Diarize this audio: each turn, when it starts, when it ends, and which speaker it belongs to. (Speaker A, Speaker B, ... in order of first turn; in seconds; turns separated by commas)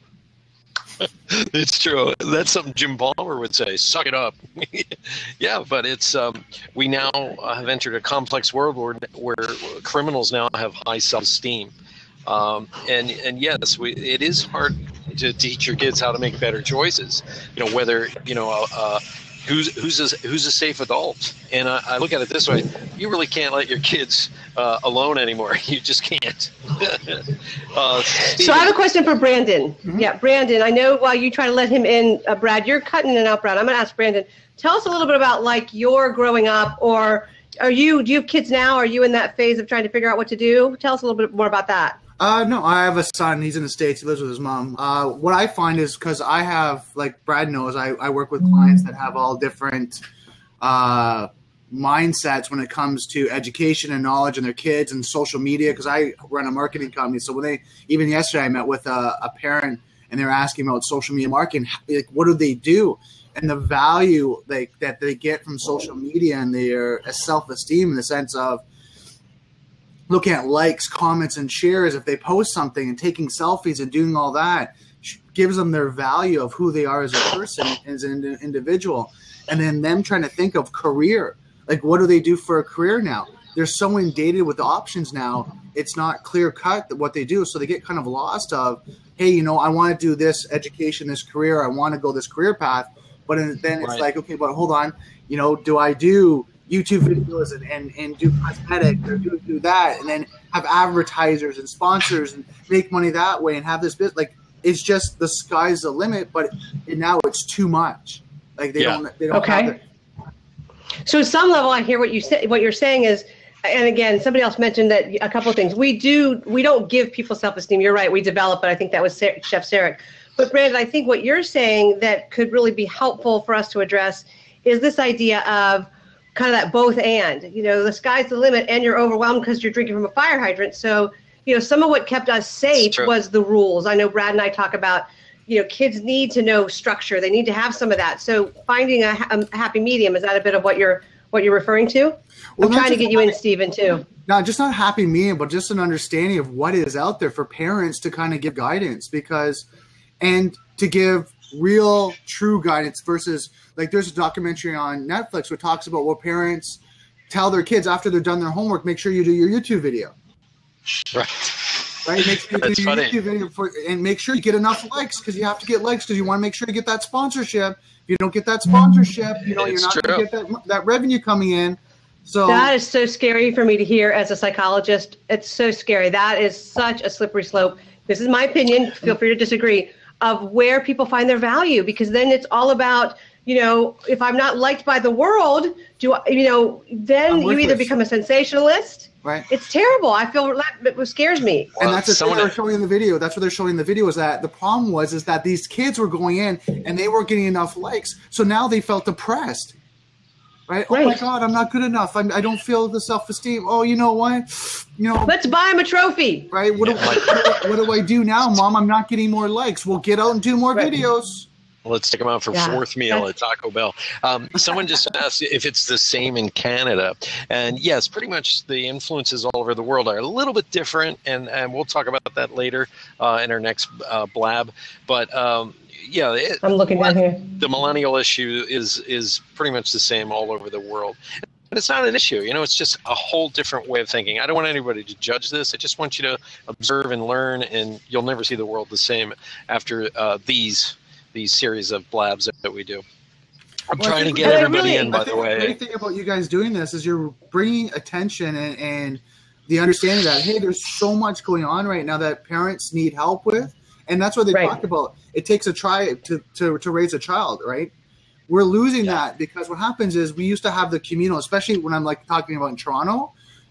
Speaker A: 1.0-11.7, Speaker A: 12.2-28.8, Speaker B: 28.2-42.0, Speaker C: 42.2-50.0, Speaker C: 50.6-68.6, Speaker C: 70.1-109.8, Speaker A: 93.8-94.0, Speaker B: 109.3-109.7, Speaker B: 111.0-144.1, Speaker A: 132.8-133.1, Speaker C: 142.6-143.3, Speaker C: 144.2-149.6, Speaker C: 150.2-160.1, Speaker A: 161.1-163.2, Speaker C: 162.0-172.7, Speaker A: 169.4-170.2, Speaker B: 172.5-191.8, Speaker C: 187.3-187.9, Speaker A: 191.8-192.5, Speaker C: 191.8-199.8, Speaker C: 200.7-205.4, Speaker B: 200.9-201.2, Speaker B: 205.3-206.5, Speaker C: 206.5-211.5, Speaker A: 206.8-207.5, Speaker B: 207.2-207.5, Speaker A: 211.8-231.2, Speaker B: 212.5-213.2, Speaker B: 226.6-227.4, Speaker A: 231.7-243.0, Speaker A: 243.9-245.8, Speaker C: 244.0-257.9, Speaker B: 244.3-245.2, Speaker C: 258.5-263.3